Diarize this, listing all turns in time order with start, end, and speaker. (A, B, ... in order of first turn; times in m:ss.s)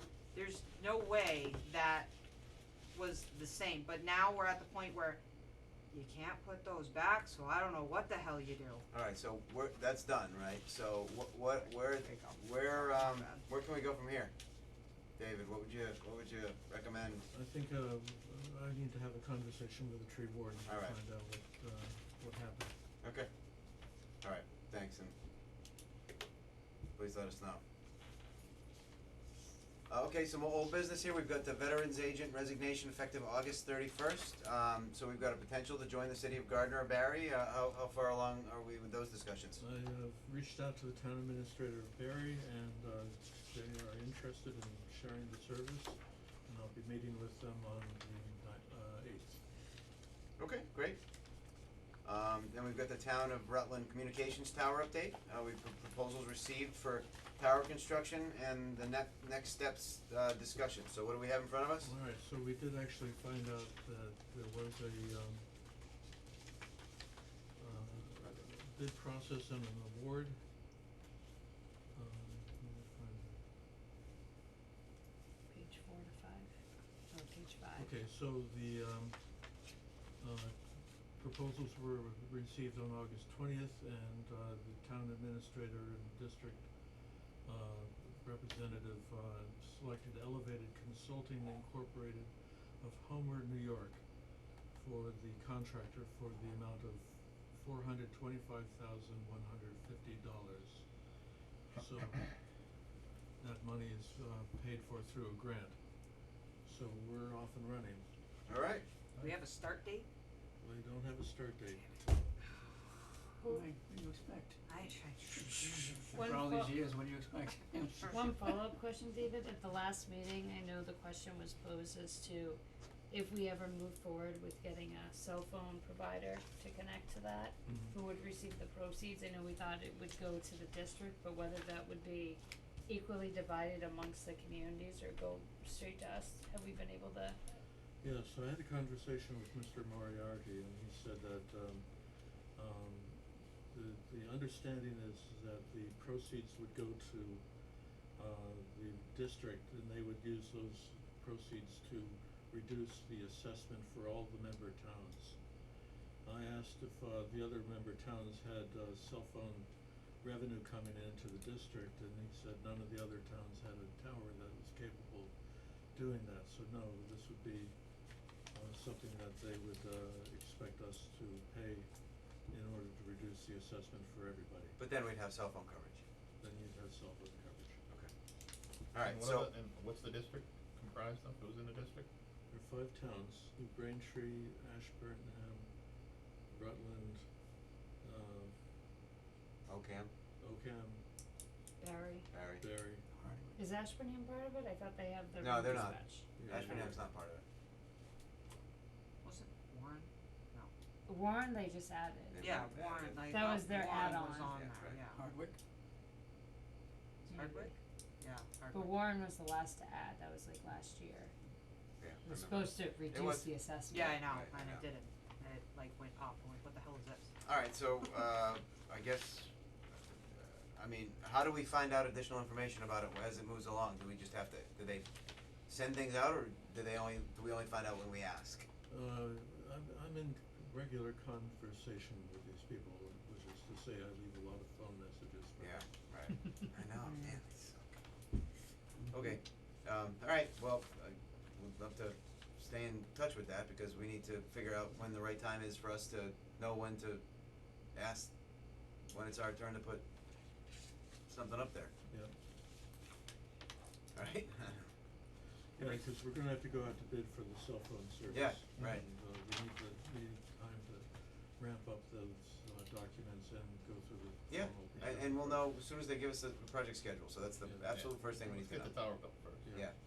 0:00.3-0:02.1 A
0:02.9-0:05.2 A
0:05.9-0:08.8 A
0:08.9-0:14.3 B
0:12.1-0:13.4 A
0:15.2-0:17.2 B
0:17.3-0:22.7 C
0:20.7-0:21.0 B
0:23.0-0:23.3 B
0:24.2-0:25.1 B
0:27.0-0:27.6 B
0:29.9-0:39.6 B
0:39.6-0:49.4 C
0:50.4-0:51.0 B
0:52.0-1:01.9 B
1:01.8-1:05.4 C
1:07.6-1:10.4 C
1:11.9-1:13.4 C
1:15.5-1:16.5 D
1:17.1-1:17.9 D
1:17.8-1:19.2 C
1:20.2-1:26.7 C
1:27.4-1:34.0 C
1:34.7-1:40.9 C
1:41.7-1:42.4 C
1:43.4-1:45.8 C
1:46.6-1:48.1 C
1:48.5-1:48.8 B
1:49.2-1:50.1 A
1:50.6-1:52.3 C
1:53.5-1:58.6 E
1:54.7-1:55.8 A
1:56.1-1:56.8 D
1:58.1-2:17.4 D
2:07.7-2:08.0 C
2:18.0-2:21.9 C
2:22.5-2:27.4 C
2:28.2-2:35.4 C
2:36.2-2:39.7 C
2:40.2-2:45.3 C
2:45.9-2:47.8 C
2:48.5-2:51.9 C
2:52.5-2:54.8 C
2:54.8-2:56.0 B
2:56.4-2:57.8 C
2:58.9-2:59.5 B
2:59.0-3:02.1 F
3:02.5-3:05.7 C
3:06.5-3:07.2 C
3:08.0-3:08.6 C
3:09.7-3:10.1 B
3:10.4-3:11.0 C
3:11.8-3:12.3 D
3:12.3-3:13.5 B
3:12.6-3:13.4 C
3:13.6-3:16.3 D
3:15.4-3:17.4 B
3:16.4-3:17.0 C
3:19.2-3:20.7 A
3:21.1-3:22.5 D
3:22.3-3:23.4 B
3:22.4-3:25.2 A
3:23.3-3:24.5 D
3:24.4-3:25.0 B
3:25.1-3:25.6 E
3:27.2-3:29.0 A
3:27.3-3:27.8 D
3:28.7-3:31.3 D
3:32.0-3:33.5 B
3:32.2-3:34.2 D
3:33.9-3:37.3 A
3:34.0-3:34.8 B
3:37.4-3:45.1 B
3:45.7-3:48.7 B
3:48.9-3:55.9 C
3:55.6-3:57.9 B
3:59.1-4:07.2 B
4:08.0-4:08.3 B
4:09.1-4:10.0 B
4:11.3-4:11.9 B
4:14.2-4:14.9 B
4:15.8-4:25.7 C
4:18.3-4:19.0 B
4:24.5-4:28.9 B
4:27.6-4:28.0 C
4:28.0-4:29.7 F
4:29.6-4:29.9 C